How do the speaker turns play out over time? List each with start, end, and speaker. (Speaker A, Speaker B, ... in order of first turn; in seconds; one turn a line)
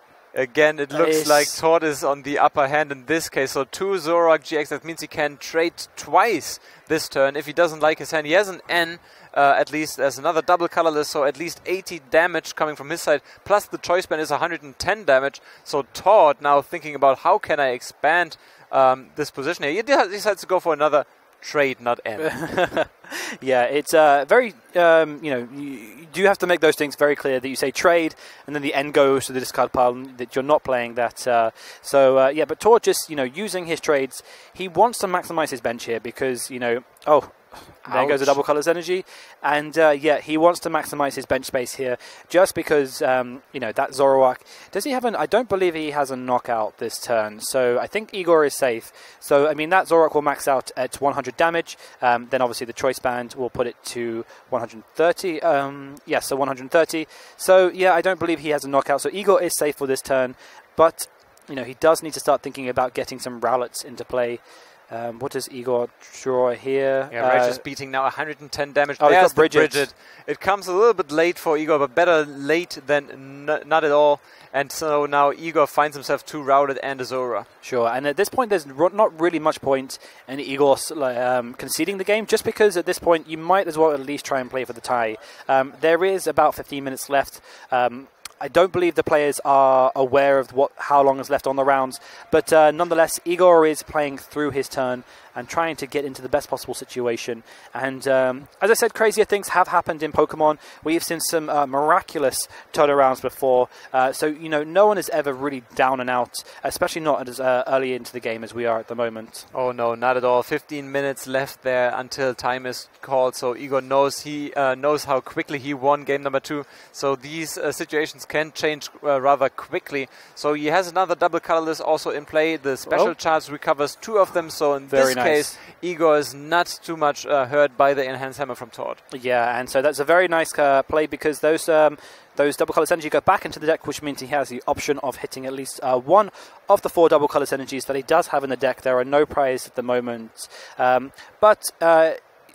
Speaker A: 0.3-22.3
Speaker B: 0.9-1.6
Speaker B: 22.2-67.6
Speaker A: 37.9-38.4
Speaker A: 67.1-77.5
Speaker B: 69.0-69.9
Speaker B: 77.6-109.5
Speaker A: 109.5-129.0
Speaker B: 122.9-123.2
Speaker B: 124.9-125.5
Speaker B: 129.1-142.2